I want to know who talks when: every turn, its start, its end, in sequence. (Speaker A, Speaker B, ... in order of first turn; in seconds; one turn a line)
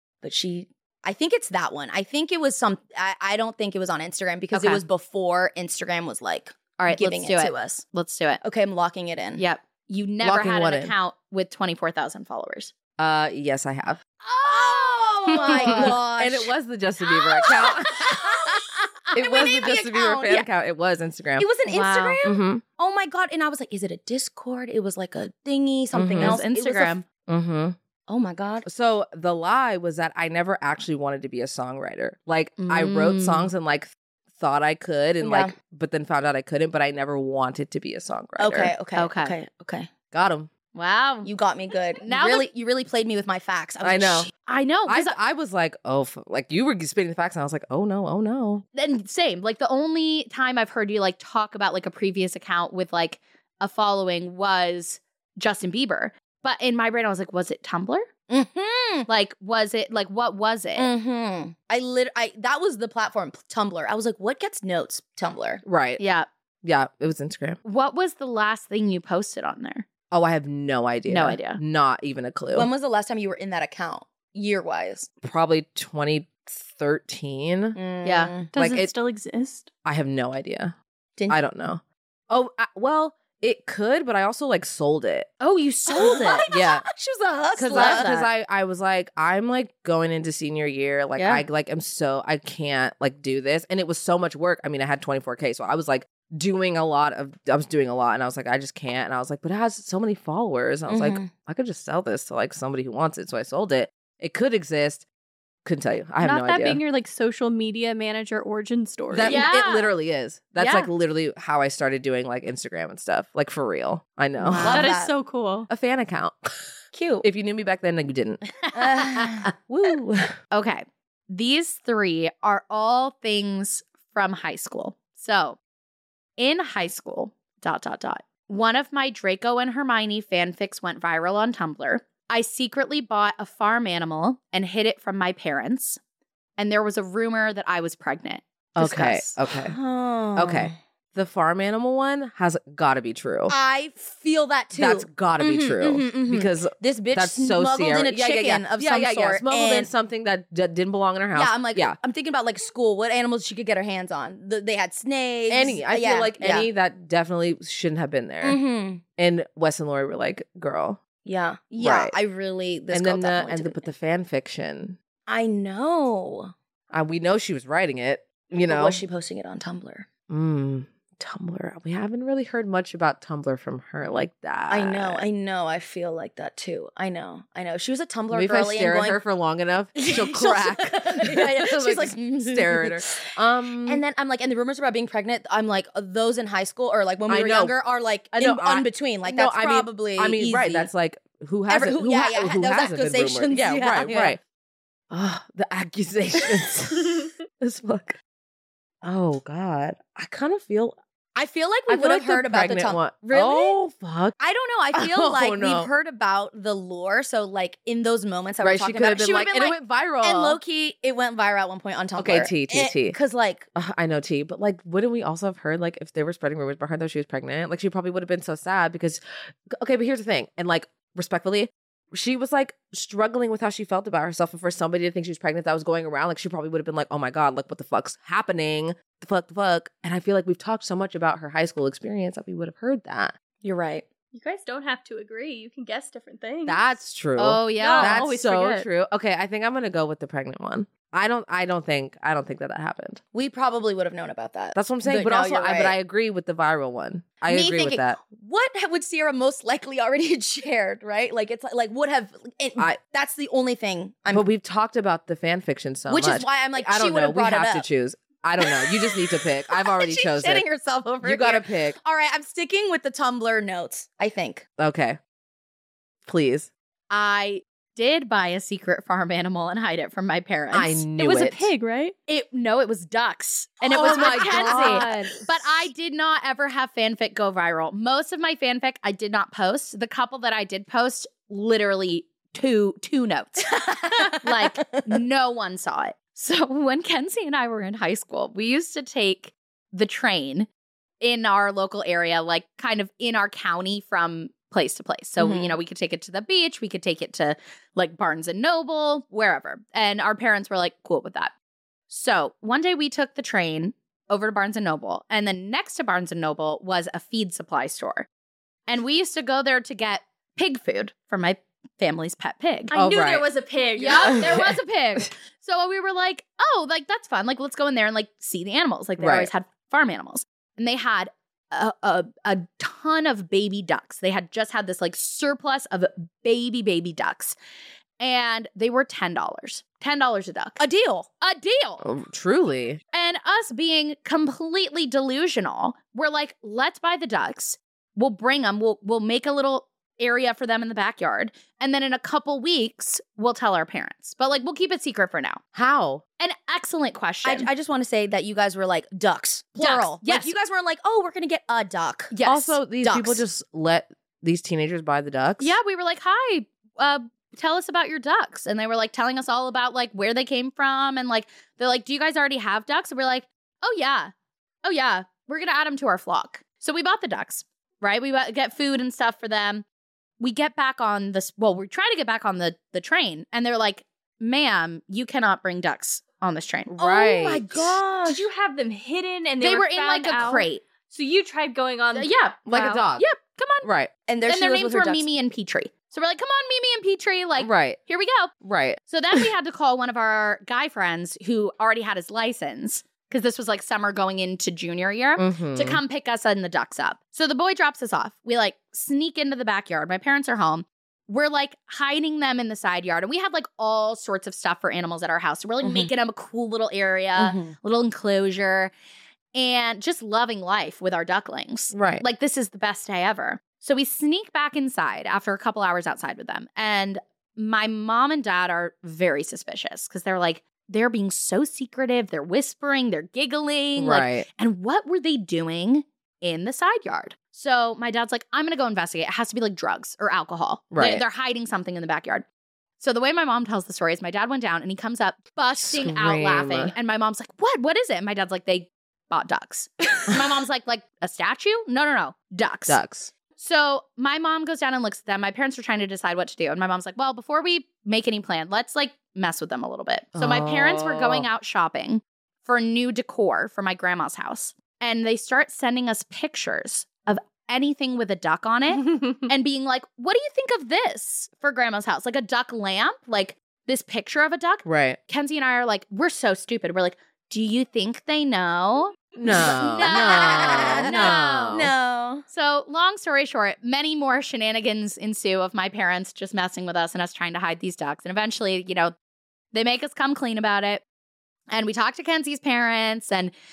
Speaker A: 0.2-7.8
Speaker B: 4.5-4.8
Speaker B: 6.8-8.4
Speaker A: 8.4-9.4
Speaker B: 9.4-12.7
Speaker C: 10.2-10.9
Speaker C: 13.0-14.0
Speaker B: 14.2-16.0
Speaker A: 14.4-16.5
Speaker C: 15.3-21.5
Speaker B: 17.2-18.2
Speaker A: 17.5-20.5
Speaker A: 21.4-27.0
Speaker B: 21.7-22.2
Speaker C: 22.2-22.6
Speaker C: 25.9-26.4
Speaker B: 26.2-27.1
Speaker C: 27.3-27.8
Speaker A: 28.1-28.7
Speaker C: 28.6-38.8
Speaker B: 32.6-33.5
Speaker A: 35.2-35.5
Speaker A: 38.4-39.9
Speaker B: 39.0-39.4
Speaker C: 40.1-40.5
Speaker B: 40.7-41.3
Speaker A: 41.2-44.3
Speaker B: 42.0-42.5
Speaker C: 43.8-44.3
Speaker B: 44.5-45.2
Speaker C: 44.9-48.6
Speaker B: 48.7-58.1
Speaker A: 58.3-59.1
Speaker B: 59.1-60.9
Speaker A: 60.8-65.6
Speaker C: 65.7-66.0
Speaker B: 66.0-66.3
Speaker C: 66.6-67.6
Speaker B: 67.6-69.8
Speaker C: 70.1-72.7
Speaker B: 71.1-71.6
Speaker A: 72.5-75.1
Speaker C: 75.2-77.8
Speaker A: 77.8-78.5
Speaker B: 78.0-78.3
Speaker C: 78.5-78.9
Speaker D: 78.5-79.7
Speaker C: 79.8-80.8
Speaker C: 81.3-85.3
Speaker B: 85.4-86.5
Speaker A: 85.9-88.1
Speaker C: 86.0-86.9
Speaker C: 87.5-105.0
Speaker B: 87.7-88.3
Speaker A: 91.2-91.4
Speaker A: 100.9-101.3
Speaker C: 105.7-106.8
Speaker D: 106.2-109.4
Speaker C: 109.1-114.9
Speaker B: 109.2-109.9
Speaker B: 110.6-110.9
Speaker A: 114.4-115.1
Speaker D: 114.6-115.7
Speaker C: 115.7-116.5
Speaker A: 116.9-117.2
Speaker C: 117.2-118.4
Speaker A: 118.7-119.5
Speaker C: 119.7-120.3
Speaker B: 120.5-125.6
Speaker B: 126.4-136.0
Speaker B: 136.6-139.4
Speaker C: 138.8-139.8
Speaker A: 139.6-140.8
Speaker C: 140.3-143.5
Speaker A: 143.5-149.9
Speaker C: 144.8-152.0
Speaker A: 151.3-156.7
Speaker C: 155.5-158.6
Speaker A: 158.4-159.0
Speaker C: 159.2-161.0
Speaker A: 161.2-163.8
Speaker C: 161.8-162.2
Speaker C: 162.9-165.0
Speaker A: 165.3-166.5
Speaker C: 166.9-169.0
Speaker A: 168.5-170.1
Speaker C: 170.3-175.3
Speaker A: 174.7-179.2
Speaker C: 178.3-184.0
Speaker A: 180.0-183.3
Speaker A: 183.9-190.9
Speaker C: 187.3-187.8
Speaker C: 188.3-194.4
Speaker A: 191.7-194.4
Speaker C: 195.1-198.2
Speaker C: 199.0-201.0
Speaker A: 201.4-203.8
Speaker C: 201.9-204.3
Speaker A: 204.4-213.7
Speaker C: 204.9-205.9
Speaker C: 208.6-210.6
Speaker C: 212.2-213.2
Speaker C: 213.8-233.3
Speaker A: 233.6-234.1
Speaker D: 234.3-236.9
Speaker C: 236.7-243.2
Speaker B: 237.4-238.2
Speaker D: 237.8-238.9
Speaker A: 243.3-245.9
Speaker C: 244.7-248.2
Speaker A: 247.5-254.5
Speaker C: 254.3-260.7
Speaker A: 256.1-257.9
Speaker A: 258.6-264.6
Speaker C: 261.2-262.0
Speaker C: 264.8-265.2
Speaker C: 266.3-266.7
Speaker B: 267.1-271.1
Speaker C: 270.7-271.7
Speaker D: 271.2-272.1
Speaker B: 272.3-290.7
Speaker C: 273.8-275.4
Speaker A: 273.9-275.3
Speaker A: 283.8-285.2
Speaker B: 291.2-301.5
Speaker A: 295.4-295.8
Speaker B: 302.1-308.3
Speaker B: 308.9-312.9
Speaker D: 312.9-314.7
Speaker C: 312.9-313.5
Speaker B: 314.0-327.6
Speaker C: 314.2-314.7
Speaker C: 319.2-319.5
Speaker B: 328.2-330.8
Speaker A: 330.8-331.3
Speaker B: 331.4-332.0
Speaker C: 332.0-333.0
Speaker B: 333.1-345.6
Speaker C: 345.7-346.2
Speaker B: 346.4-347.7
Speaker A: 347.4-352.3
Speaker B: 349.8-350.6
Speaker B: 352.3-352.8
Speaker C: 352.4-355.8
Speaker A: 353.0-353.4
Speaker B: 355.6-364.3
Speaker B: 364.8-369.9
Speaker B: 370.4-377.0
Speaker C: 376.9-377.8
Speaker A: 377.0-378.5
Speaker D: 378.3-383.1
Speaker B: 379.6-380.8
Speaker B: 382.1-383.9
Speaker C: 382.7-383.2
Speaker C: 383.8-384.1
Speaker A: 384.3-385.2
Speaker B: 384.4-388.5
Speaker C: 387.6-388.0
Speaker C: 388.6-389.5
Speaker B: 389.1-408.9
Speaker C: 395.4-396.0
Speaker A: 405.8-406.1
Speaker A: 407.4-407.7
Speaker B: 409.5-432.4
Speaker C: 411.9-412.2
Speaker C: 424.0-424.5
Speaker C: 430.9-431.2
Speaker B: 433.0-443.0
Speaker C: 435.8-436.9
Speaker C: 442.9-443.3
Speaker B: 443.6-471.8
Speaker C: 450.4-451.5
Speaker C: 464.9-465.2
Speaker C: 469.4-471.9
Speaker A: 469.5-472.4
Speaker B: 472.5-479.1
Speaker B: 479.7-481.0
Speaker B: 481.7-483.5